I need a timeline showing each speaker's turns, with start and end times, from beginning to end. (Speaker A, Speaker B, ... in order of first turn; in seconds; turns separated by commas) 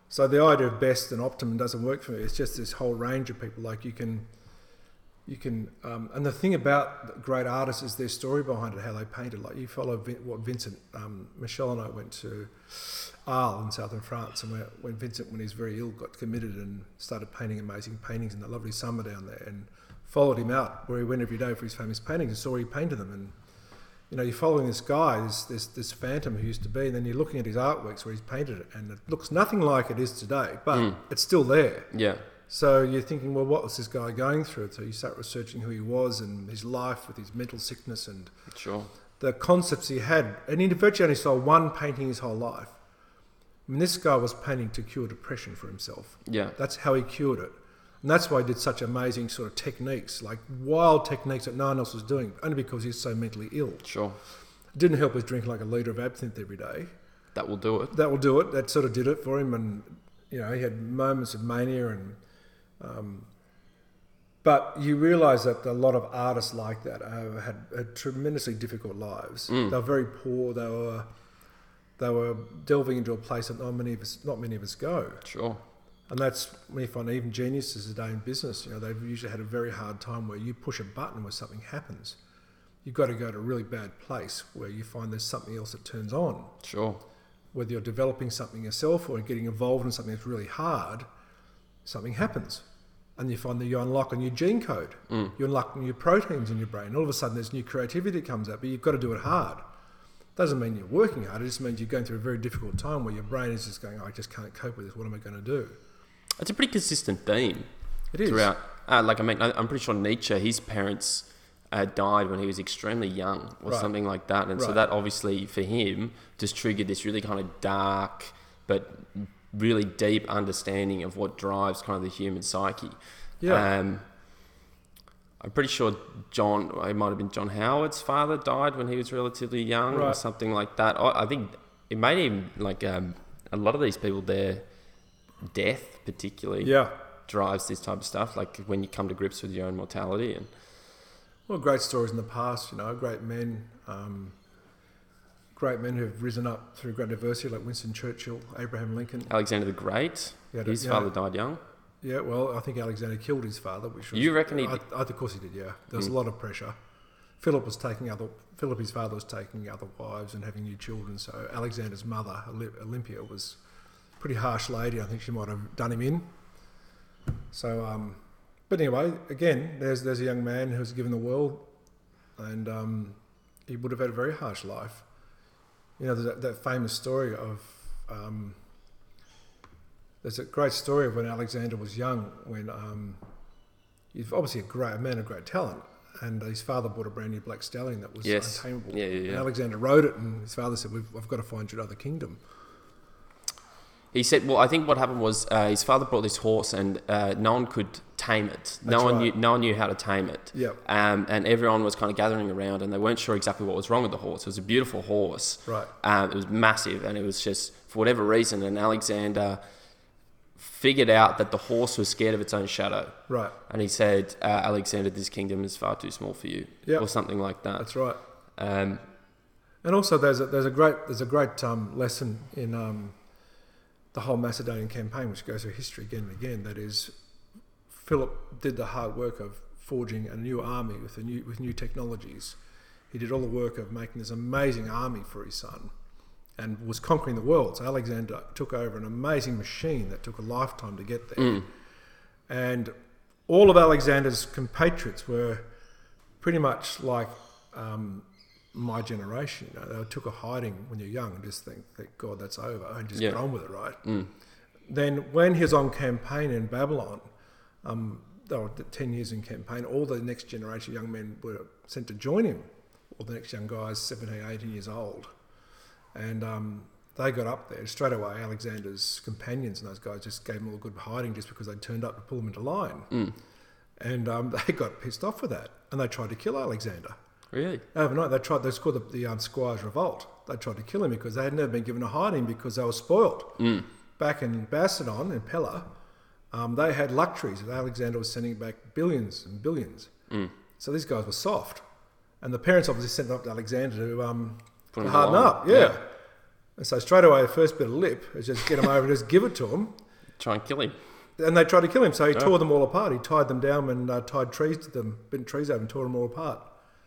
Speaker A: 0.1-4.3, Speaker A: 5.3-23.4, Speaker A: 24.1-31.9, Speaker B: 30.7-31.0, Speaker B: 31.9-32.2, Speaker A: 32.5-38.3, Speaker B: 38.5-38.9, Speaker A: 39.2-42.8, Speaker A: 43.7-53.9, Speaker B: 46.3-46.6, Speaker B: 53.8-54.2, Speaker A: 54.8-56.9, Speaker B: 57.4-58.0, Speaker A: 57.9-62.2, Speaker A: 62.8-63.3, Speaker A: 64.4-71.1, Speaker B: 69.5-69.7, Speaker A: 72.0-75.2, Speaker B: 75.2-75.6, Speaker A: 76.1-82.2, Speaker A: 82.8-86.5, Speaker B: 86.6-87.0, Speaker A: 87.5-91.1, Speaker A: 91.8-92.7, Speaker A: 93.2-99.6, Speaker A: 100.4-105.8, Speaker B: 106.4-107.7, Speaker A: 108.1-108.5, Speaker B: 108.2-124.0, Speaker A: 123.4-123.7, Speaker B: 125.4-134.7, Speaker A: 129.9-130.2, Speaker B: 135.5-136.8, Speaker A: 136.6-136.9, Speaker B: 137.3-140.5, Speaker A: 141.5-144.4, Speaker A: 145.6-149.3, Speaker B: 149.3-151.6, Speaker A: 150.5-151.1, Speaker A: 152.0-156.8, Speaker B: 154.1-154.8, Speaker A: 157.4-163.6, Speaker A: 164.2-166.3, Speaker A: 167.5-171.7, Speaker A: 172.4-175.1, Speaker A: 176.0-178.6, Speaker A: 180.2-183.2, Speaker A: 184.1-192.4, Speaker B: 188.2-189.5, Speaker B: 194.1-209.6, Speaker A: 198.8-199.3, Speaker A: 200.5-200.8, Speaker A: 205.7-205.9, Speaker B: 210.6-217.9, Speaker A: 213.3-213.6, Speaker A: 217.8-218.2, Speaker B: 218.6-219.1, Speaker A: 219.8-223.2, Speaker A: 224.1-227.1, Speaker A: 227.9-232.6, Speaker A: 233.1-235.9, Speaker A: 236.6-241.7, Speaker A: 242.5-242.9, Speaker A: 243.5-245.7, Speaker A: 246.4-254.0, Speaker B: 253.2-253.4, Speaker B: 254.1-254.3, Speaker A: 254.9-257.2, Speaker A: 257.8-265.3, Speaker A: 266.1-273.1, Speaker A: 274.0-277.2, Speaker B: 277.5-277.8, Speaker A: 277.9-285.9, Speaker B: 283.6-283.9, Speaker A: 286.5-290.1, Speaker A: 290.8-291.8, Speaker A: 292.4-296.1, Speaker B: 294.9-296.0, Speaker A: 296.8-299.9, Speaker B: 300.4-301.0, Speaker A: 301.4-306.7